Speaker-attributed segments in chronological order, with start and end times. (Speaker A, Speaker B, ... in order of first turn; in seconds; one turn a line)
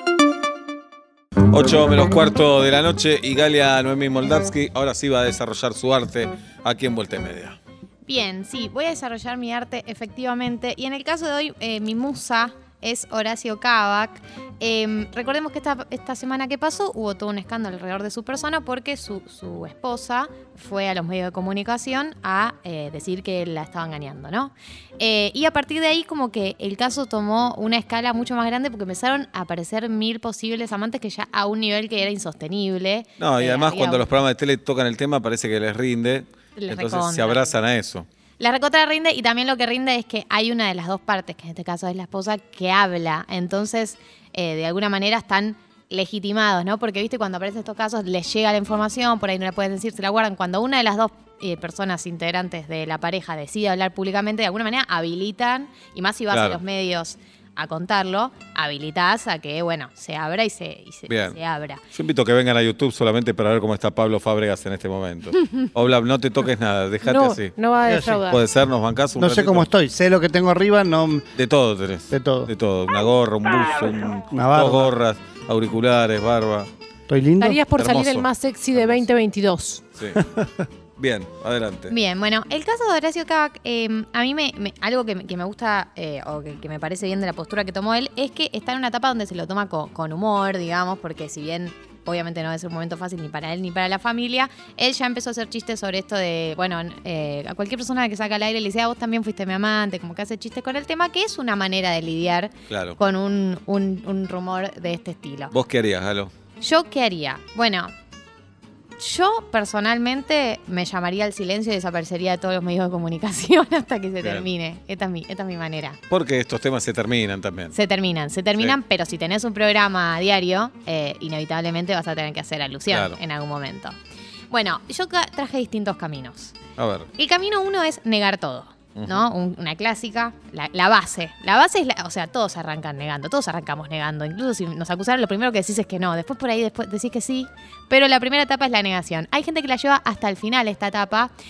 Speaker A: 1.5-7.6
Speaker B: 8.1-34.1
Speaker A: 33.2-38.0
Speaker B: 36.5-37.5
Speaker B: 38.4-61.8
Speaker A: 56.3-56.6
Speaker A: 61.1-61.4
Speaker A: 61.9-67.5
Speaker C: 67.0-68.4
Speaker D: 67.8-68.2
Speaker A: 68.3-69.7
Speaker D: 69.2-71.3
Speaker A: 71.3-76.7
Speaker D: 72.1-72.5
Speaker D: 74.2-74.9
Speaker D: 77.1-77.6
Speaker C: 77.4-79.8
Speaker A: 77.7-79.1
Speaker D: 80.2-80.6
Speaker A: 81.0-81.9
Speaker B: 81.9-105.5
Speaker A: 102.7-103.0
Speaker A: 105.5-106.3
Speaker B: 106.6-107.9
Speaker B: 109.0-116.0
Speaker A: 116.1-117.7
Speaker B: 117.7-124.0
Speaker A: 122.9-123.2
Speaker B: 124.5-126.5
Speaker A: 126.8-127.1
Speaker B: 127.1-141.3
Speaker A: 128.9-129.2